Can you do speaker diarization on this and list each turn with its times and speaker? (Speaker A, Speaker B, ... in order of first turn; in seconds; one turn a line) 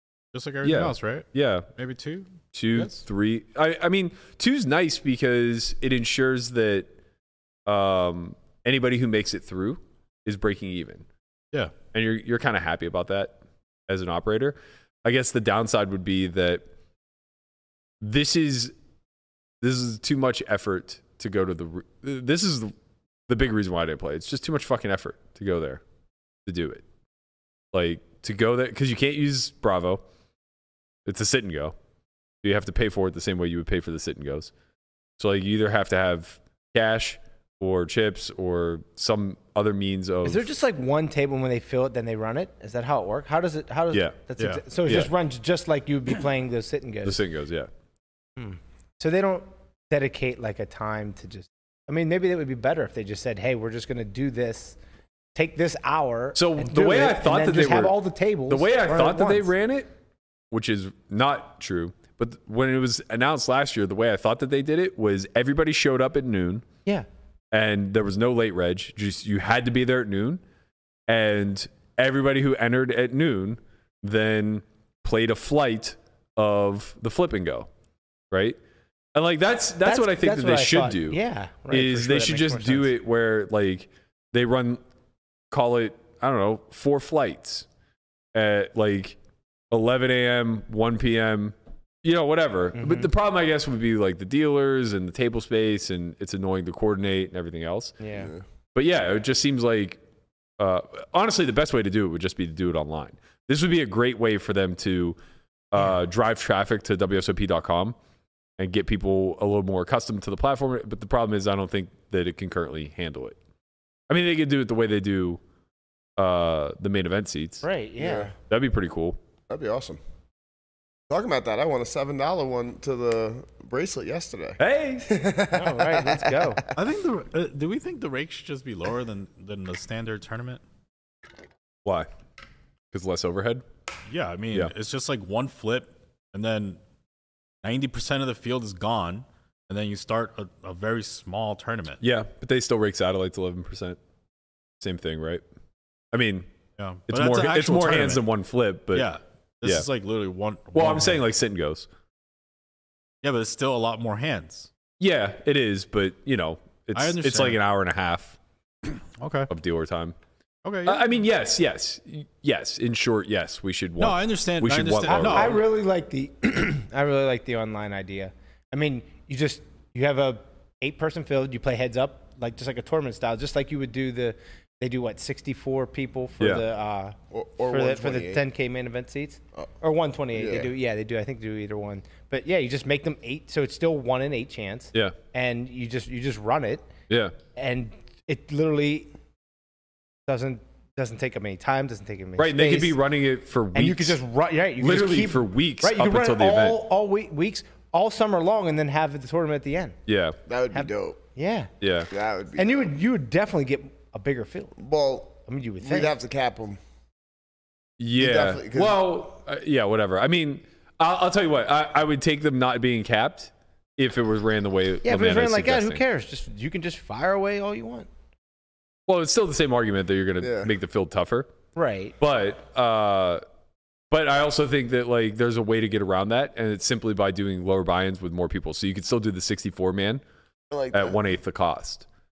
Speaker A: 0.3-3.0
Speaker B: 0.6-1.7
Speaker B: 2.5-6.9
Speaker B: 7.7-11.1
Speaker B: 11.9-16.6
Speaker B: 18.0-18.7
Speaker B: 19.6-22.7
Speaker B: 23.3-25.8
Speaker B: 26.5-26.9
Speaker B: 27.7-30.0
Speaker B: 31.1-31.8
Speaker B: 32.4-34.5
Speaker B: 35.2-40.5
Speaker C: 40.2-47.2
Speaker B: 43.9-44.2
Speaker A: 44.4-44.6
Speaker B: 44.9-45.1
Speaker B: 47.0-47.7
Speaker C: 48.4-54.8
Speaker C: 55.4-59.5
Speaker B: 56.4-58.0
Speaker B: 58.5-59.9
Speaker B: 60.5-66.7
Speaker B: 67.5-70.4
Speaker B: 71.1-77.7
Speaker B: 78.3-78.6
Speaker B: 79.2-81.2
Speaker C: 79.8-82.9
Speaker B: 81.7-84.8
Speaker B: 85.5-87.7
Speaker B: 88.3-89.2
Speaker B: 89.7-98.0
Speaker C: 92.7-93.1
Speaker C: 98.0-98.3
Speaker D: 98.2-98.4
Speaker B: 98.8-100.0
Speaker B: 100.6-105.2
Speaker B: 105.7-108.0
Speaker B: 108.6-113.4
Speaker B: 114.1-115.4
Speaker B: 116.2-117.7
Speaker C: 117.6-118.3
Speaker D: 118.0-118.3
Speaker B: 118.5-119.2
Speaker D: 119.5-120.0
Speaker D: 121.1-126.5
Speaker B: 124.6-125.1
Speaker C: 125.5-126.6
Speaker A: 126.8-130.6
Speaker B: 132.9-133.7
Speaker A: 134.1-136.8
Speaker A: 137.6-142.0
Speaker B: 142.0-144.0
Speaker B: 144.8-145.4
Speaker B: 146.1-146.5
Speaker A: 146.8-148.2
Speaker B: 147.1-149.1
Speaker A: 148.9-151.2
Speaker B: 150.7-151.9
Speaker A: 153.2-154.7
Speaker B: 155.0-158.4
Speaker A: 156.9-157.6
Speaker A: 159.2-159.5
Speaker B: 159.5-160.2
Speaker A: 160.6-161.1
Speaker B: 160.8-165.6
Speaker A: 164.0-165.6
Speaker C: 165.1-177.2
Speaker D: 177.3-178.4
Speaker C: 177.7-186.9
Speaker D: 180.3-180.7
Speaker B: 187.1-187.3
Speaker C: 187.6-189.1
Speaker C: 190.3-193.0
Speaker B: 192.4-194.2
Speaker C: 193.7-200.0
Speaker B: 194.8-196.8
Speaker B: 200.1-200.4
Speaker D: 200.5-201.2
Speaker C: 200.7-201.7
Speaker B: 201.8-202.1
Speaker D: 202.1-202.8
Speaker C: 202.6-204.8
Speaker D: 204.8-206.8
Speaker C: 205.5-206.1
Speaker B: 208.0-216.0
Speaker D: 208.2-209.0
Speaker C: 215.0-218.1
Speaker B: 219.1-221.5
Speaker D: 220.4-220.7
Speaker C: 221.8-222.2
Speaker B: 222.2-223.4
Speaker B: 224.1-230.2
Speaker D: 230.7-231.2
Speaker B: 230.9-232.1